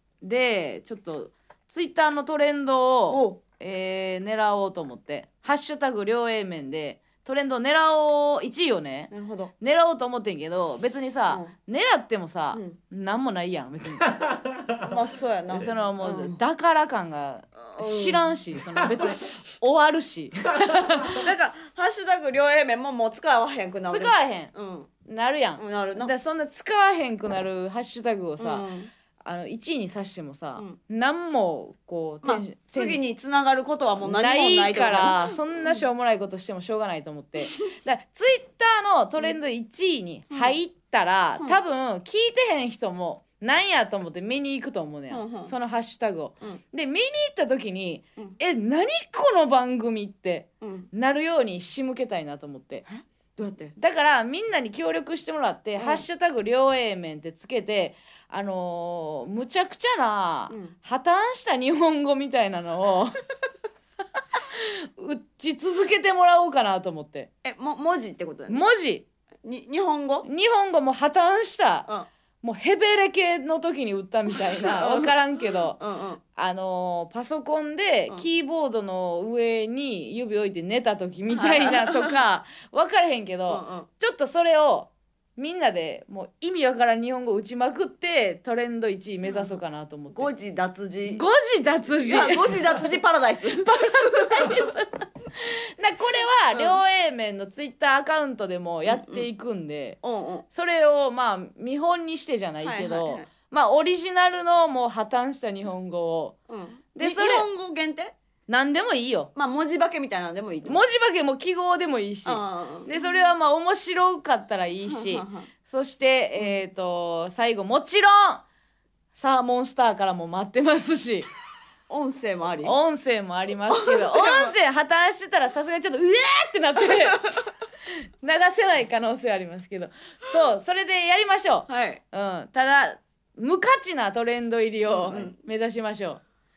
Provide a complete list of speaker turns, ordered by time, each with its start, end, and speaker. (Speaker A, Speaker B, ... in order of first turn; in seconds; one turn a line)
Speaker A: 0.2-14.2
Speaker B: 3.1-3.4
Speaker B: 9.1-9.5
Speaker B: 12.5-12.8
Speaker B: 14.8-16.4
Speaker A: 15.5-21.2
Speaker B: 17.6-18.3
Speaker B: 21.1-24.9
Speaker A: 23.9-24.5
Speaker A: 25.1-28.7
Speaker B: 25.6-26.1
Speaker B: 28.4-28.9
Speaker A: 29.2-33.0
Speaker B: 32.2-35.8
Speaker A: 34.0-52.9
Speaker B: 45.1-45.5
Speaker B: 50.6-50.9
Speaker B: 52.9-53.8
Speaker A: 53.8-63.2
Speaker B: 55.8-56.0
Speaker B: 60.5-60.7
Speaker A: 64.4-67.3
Speaker B: 67.4-68.6
Speaker A: 68.5-69.1
Speaker B: 69.4-70.2
Speaker A: 70.2-71.9
Speaker A: 72.4-75.8
Speaker B: 74.3-76.2
Speaker A: 76.3-90.3
Speaker B: 81.3-82.2
Speaker B: 83.5-83.9
Speaker B: 89.2-89.5
Speaker B: 90.1-91.2
Speaker A: 91.1-92.5
Speaker B: 92.0-94.6
Speaker A: 93.6-100.0
Speaker B: 96.5-96.8
Speaker B: 98.8-99.3
Speaker B: 100.0-100.5
Speaker A: 100.5-106.4
Speaker B: 102.6-103.3
Speaker B: 106.5-108.1
Speaker A: 106.9-107.5
Speaker A: 108.5-109.3
Speaker B: 109.3-110.8
Speaker A: 110.7-118.4
Speaker B: 112.2-113.1
Speaker B: 114.8-115.5
Speaker B: 116.3-116.6
Speaker A: 119.1-121.2
Speaker B: 121.9-122.7
Speaker A: 122.6-127.2
Speaker B: 123.7-124.5
Speaker A: 128.2-136.2
Speaker B: 131.7-132.0
Speaker B: 134.9-135.4